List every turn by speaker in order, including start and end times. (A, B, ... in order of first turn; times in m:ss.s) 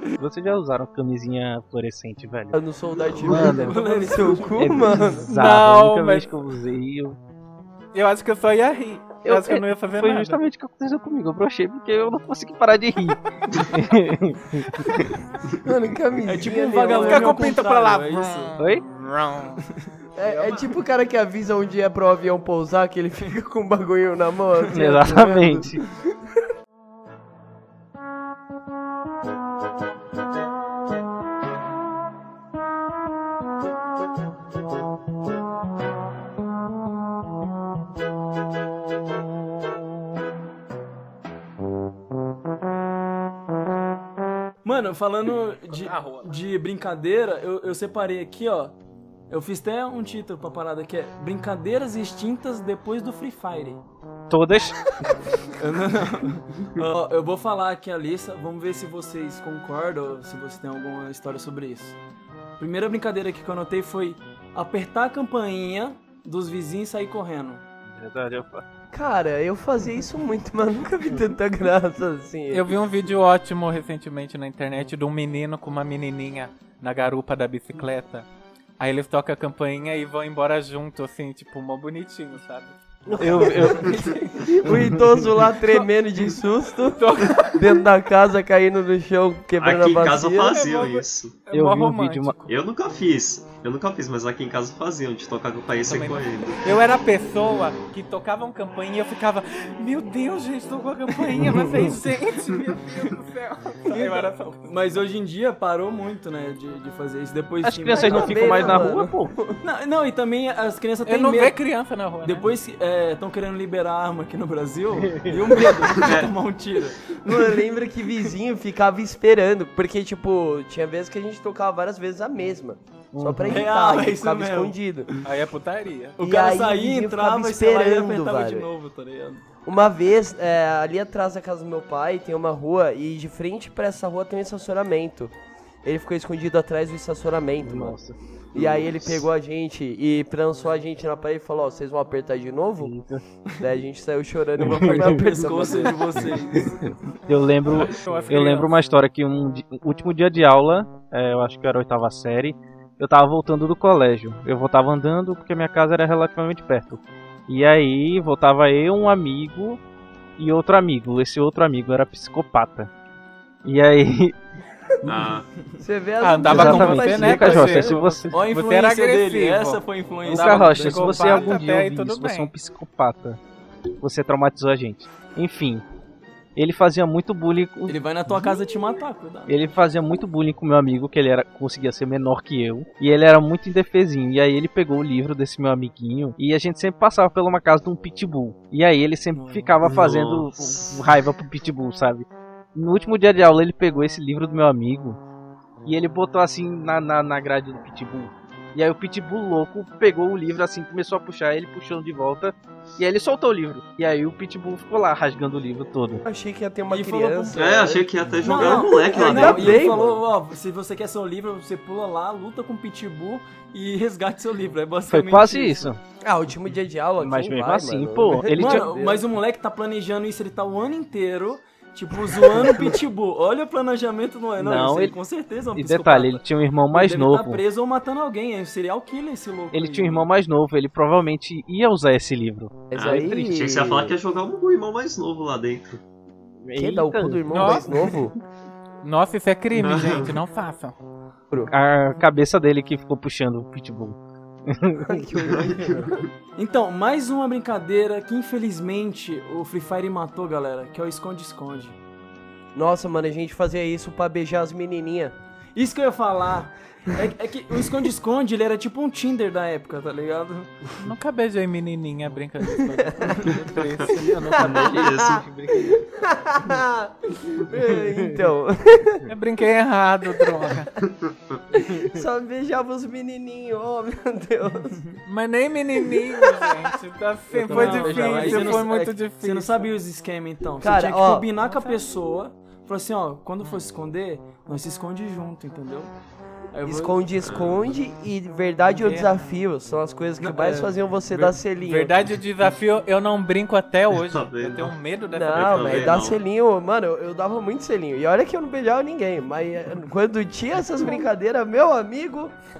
0:00.2-0:02.6 A
0:02.5-0:05.3 B
0:03.2-0:03.8 A
0:03.4-0:05.0 C
0:04.6-0:07.2 A
0:05.3-0:06.3 D
0:07.9-0:10.4 D
0:09.2-0:15.1 A
0:15.6-0:17.5 B
0:16.2-0:18.5 C
0:16.9-0:19.6 D
0:18.6-0:18.8 A
0:20.2-0:26.0 B
0:20.2-0:20.7 D
0:24.7-0:25.8 A
0:44.6-0:48.7 C
0:45.7-0:46.4 D
0:49.3-0:53.8 C
0:54.3-0:54.8 A
0:55.4-1:02.0 C
1:02.6-1:07.6 C
1:07.9-1:08.6 A
1:08.9-1:12.7 B
1:12.5-1:18.2 D
1:18.8-1:22.8 D
1:23.1-1:30.6 B
1:23.2-1:24.1 A
1:23.7-1:24.5 C
1:24.6-1:25.2 A
1:26.9-1:27.8 D
1:29.6-1:31.4 E
1:30.4-1:32.6 D
1:31.5-1:32.4 A
1:32.5-1:36.7 E
1:35.8-1:44.6 D
1:41.6-1:41.9 A
1:43.9-1:48.9 C
1:47.6-1:49.3 A
1:47.9-1:49.6 B
1:49.6-1:51.6 C
1:51.0-1:52.5 D
1:52.2-1:57.7 C
1:55.0-1:55.5 A
1:55.9-1:56.3 E
1:57.3-2:05.1 B
2:03.1-2:03.6 A
2:03.5-2:04.7 C
2:05.2-2:06.2 D
2:06.2-2:09.4 C
2:06.2-2:08.7 B
2:09.6-2:15.3 B
2:15.8-2:18.0 B
2:17.6-2:18.2 A
2:18.5-2:22.9 B
2:18.5-2:19.2 E
2:22.8-2:23.2 A
2:23.6-2:26.3 B
2:24.6-2:25.2 A
2:24.6-2:27.0 C
2:26.6-2:39.8 A
2:27.7-2:28.8 D
2:40.4-2:42.9 A
2:43.6-2:44.4 A
2:45.0-2:45.5 E
2:45.8-2:48.0 B
2:46.2-2:52.5 D
2:46.5-2:48.4 A
2:48.3-2:51.6 C
2:50.2-2:53.4 A
2:54.0-2:55.8 A
2:56.6-2:58.0 A
2:57.9-2:59.6 C
2:59.5-3:15.2 A
3:09.3-3:09.7 C
3:09.8-3:11.2 E
3:15.8-3:26.2 A
3:26.2-3:30.2 B
3:26.9-3:27.6 C
3:27.5-3:29.9 E
3:28.4-3:35.9 C
3:35.1-3:36.0 A
3:36.2-3:39.2 B
3:37.2-3:38.9 A
3:38.5-3:50.3 C
3:44.6-3:45.2 A
3:45.7-3:47.6 A
3:49.7-3:53.4 A
3:52.9-3:54.2 B
3:52.9-3:56.0 E
3:56.6-3:57.7 A
3:56.8-3:58.3 B
3:57.5-3:58.1 D
3:59.0-4:01.0 D
3:59.7-4:00.4 E
4:01.7-4:05.2 A
4:05.0-4:06.2 B
4:05.5-4:06.3 E
4:06.6-4:12.0 C
4:12.7-4:15.3 B
4:15.7-4:20.8 C
4:21.0-4:24.5 D
4:22.9-4:23.5 B
4:23.5-4:26.0 A
4:24.5-4:29.2 B
4:24.6-4:25.4 E
4:27.9-4:28.4 A
4:29.3-4:30.9 D
4:30.4-4:30.8 B
4:31.0-4:31.6 E
4:31.7-4:35.0 B
4:34.9-4:35.2 C
4:35.2-4:39.9 D
4:36.0-4:36.7 B
4:37.6-4:38.8 A
4:37.6-4:46.1 C
4:40.8-4:41.5 B
4:41.7-4:42.1 D
4:46.7-4:47.3 C
4:46.8-4:52.1 B
4:47.4-4:48.0 E
4:48.9-4:49.4 D
4:50.4-4:51.4 C
4:51.8-4:56.2 D
4:54.1-4:54.9 E
4:55.3-5:02.5 B
4:55.5-4:56.4 E